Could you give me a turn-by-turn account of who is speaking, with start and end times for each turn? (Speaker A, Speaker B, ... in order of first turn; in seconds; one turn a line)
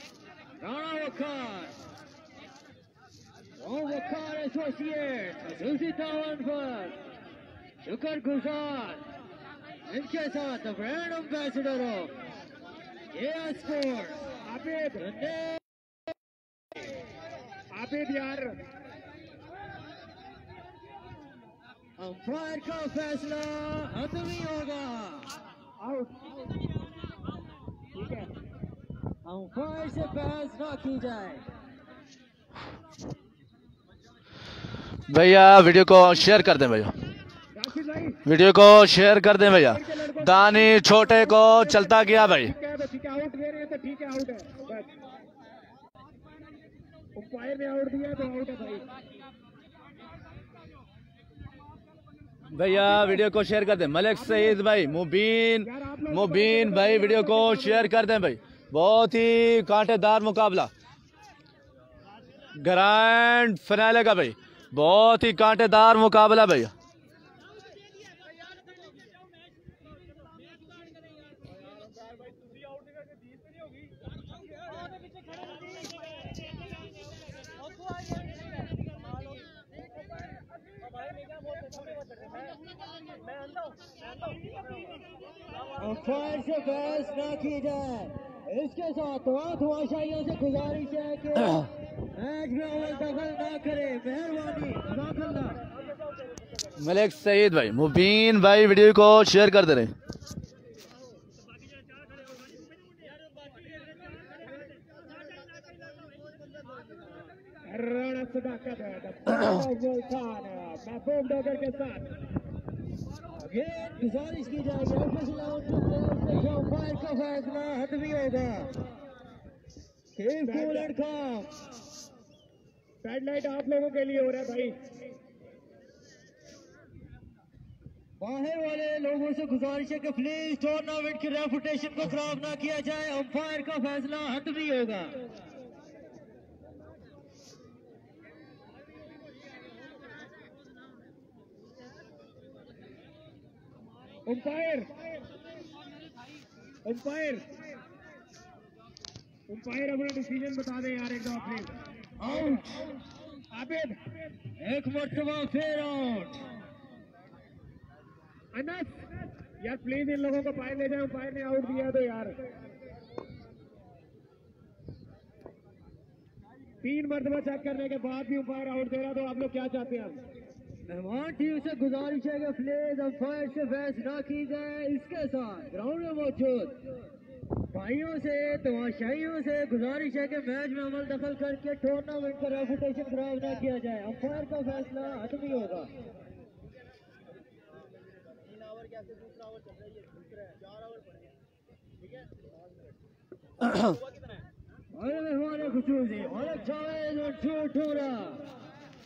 Speaker A: 0.6-1.8
Speaker A: 3.6-7.0
Speaker A: 7.8-9.1
Speaker A: 9.9-12.2
Speaker A: 13.1-14.2
Speaker B: 14.5-15.1
Speaker A: 15.0-15.6
Speaker B: 17.7-18.6
Speaker A: 22.0-25.3
Speaker B: 25.8-26.2
Speaker B: 27.9-28.3
Speaker A: 29.2-31.4
Speaker C: 35.1-36.9
Speaker B: 37.5-38.2
Speaker C: 38.3-42.5
Speaker B: 39.8-40.5
Speaker B: 41.4-44.9
Speaker B: 47.2-48.9
Speaker C: 52.5-60.7
Speaker B: 52.9-53.1
Speaker B: 55.6-57.9
Speaker C: 62.6-66.7
Speaker A: 85.8-95.6
Speaker C: 96.8-99.9
Speaker B: 107.7-112.1
Speaker A: 113.4-118.8
Speaker A: 120.2-121.6
Speaker B: 120.5-120.9
Speaker B: 123.0-124.8
Speaker A: 128.2-135.2
Speaker B: 144.3-144.9
Speaker B: 146.8-147.4
Speaker B: 149.5-151.7
Speaker A: 152.2-152.9
Speaker B: 153.5-154.0
Speaker A: 154.6-156.4
Speaker B: 158.5-159.1
Speaker B: 159.6-162.4
Speaker B: 166.8-170.2
Speaker A: 170.9-175.8
Speaker B: 175.8-176.7
Speaker A: 177.7-185.9
Speaker A: 194.9-198.5